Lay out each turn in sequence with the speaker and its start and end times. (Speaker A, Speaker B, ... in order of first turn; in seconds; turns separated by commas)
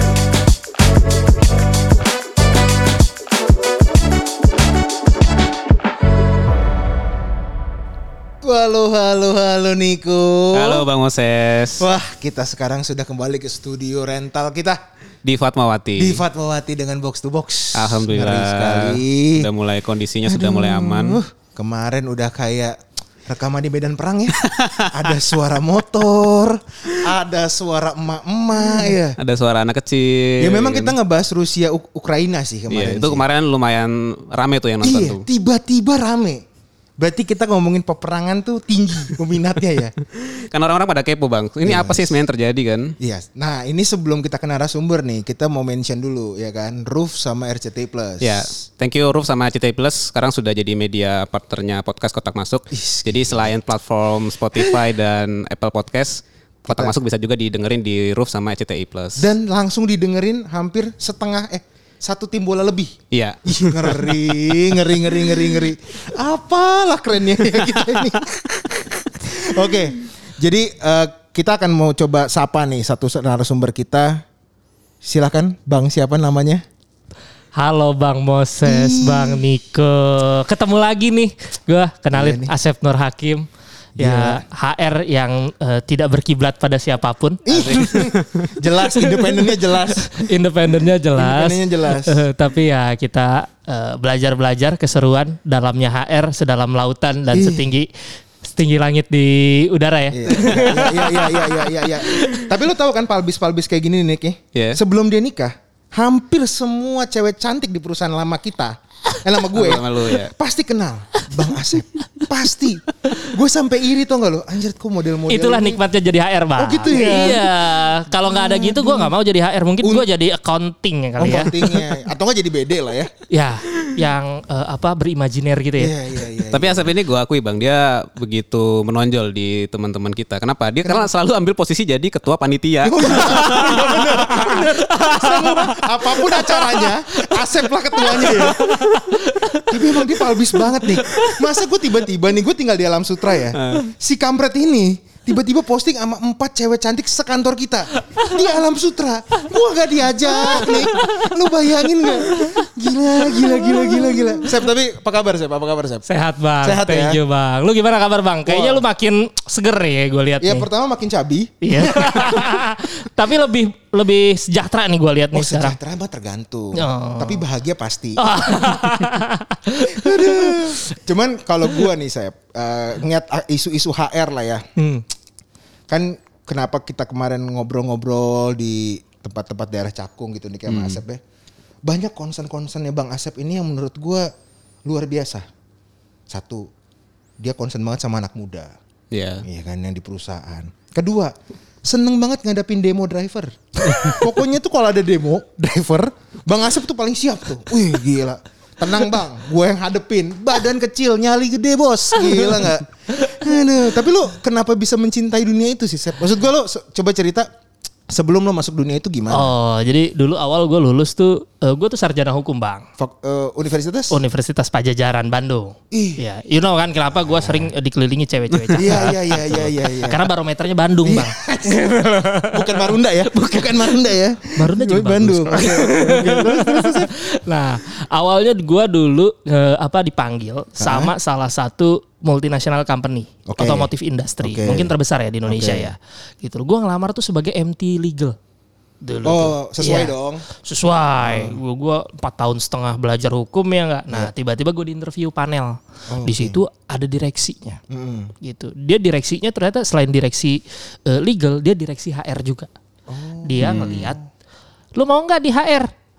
Speaker A: 8.4-10.9, Speaker B: 10.5-11.9, Speaker A: 11.8-14.8, Speaker B: 15.2-16.2, Speaker A: 16.0-19.5, Speaker B: 17.8-21.2, Speaker A: 20.3-29.2, Speaker B: 24.4-25.1, Speaker B: 29.2-31.0, Speaker A: 30.4-33.3, Speaker B: 32.7-35.2, Speaker A: 34.8-36.4, Speaker A: 37.0-39.9, Speaker B: 40.4-43.0, Speaker A: 41.6-42.2, Speaker A: 43.0-48.5, Speaker B: 48.2-59.3, Speaker A: 52.7-53.5, Speaker A: 54.5-54.8, Speaker A: 56.7-56.9, Speaker A: 59.2-63.0, Speaker B: 63.1-65.5, Speaker A: 63.5-74.2, Speaker B: 67.7-68.2, Speaker A: 75.0-76.6, Speaker C: 77.6-83.5, Speaker A: 78.6-79.4, Speaker A: 82.1-82.5, Speaker A: 84.0-84.5, Speaker C: 84.0-88.0, Speaker A: 87.5-90.3, Speaker B: 87.5-88.5, Speaker C: 88.9-102.5, Speaker A: 91.2-92.2, Speaker A: 97.3-97.7, Speaker A: 100.1-115.8, Speaker B: 104.5-104.8, Speaker B: 109.5-110.3, Speaker C: 115.3-121.9, Speaker A: 116.6-119.1, Speaker A: 119.8-120.1, Speaker A: 121.2-123.1, Speaker C: 123.3-125.9, Speaker A: 125.8-126.9, Speaker B: 126.5-135.7, Speaker A: 130.8-131.1, Speaker A: 132.8-139.0, Speaker C: 133.5-134.6, Speaker B: 136.2-137.0, Speaker C: 137.9-141.5, Speaker A: 139.6-156.1, Speaker B: 143.5-143.9, Speaker C: 148.1-148.4, Speaker C: 150.3-152.5, Speaker C: 153.3-154.4, Speaker C: 156.1-160.7, Speaker A: 156.6-157.2, Speaker A: 158.5-158.8, Speaker A: 160.4-162.7, Speaker C: 161.6-165.8, Speaker A: 165.3-168.8, Speaker C: 166.7-167.4, Speaker C: 168.2-170.8, Speaker A: 169.8-174.6, Speaker C: 174.8-175.0, Speaker A: 175.9-181.2, Speaker B: 180.7-181.0, Speaker A: 181.8-184.3, Speaker A: 184.9-185.4, Speaker A: 186.3-186.7, Speaker A: 187.4-188.7, Speaker B: 189.1-189.4, Speaker A: 189.4-207.5, Speaker C: 202.2-202.7, Speaker A: 208.1-209.5, Speaker C: 209.3-212.9, Speaker A: 213.0-214.2, Speaker C: 214.1-222.9, Speaker A: 215.9-216.2, Speaker A: 217.3-217.7, Speaker A: 218.8-220.3, Speaker A: 221.0-221.8, Speaker A: 222.5-227.1, Speaker C: 224.6-238.4, Speaker A: 230.8-231.1, Speaker A: 233.5-233.9, Speaker A: 234.4-234.9, Speaker A: 235.5-235.9, Speaker C: 239.0-247.8, Speaker A: 239.2-240.4, Speaker A: 241.2-241.6, Speaker A: 246.1-246.6, Speaker A: 247.9-248.3, Speaker C: 248.4-252.7, Speaker A: 253.1-254.2, Speaker C: 253.4-254.2, Speaker B: 253.6-254.0, Speaker C: 255.0-255.9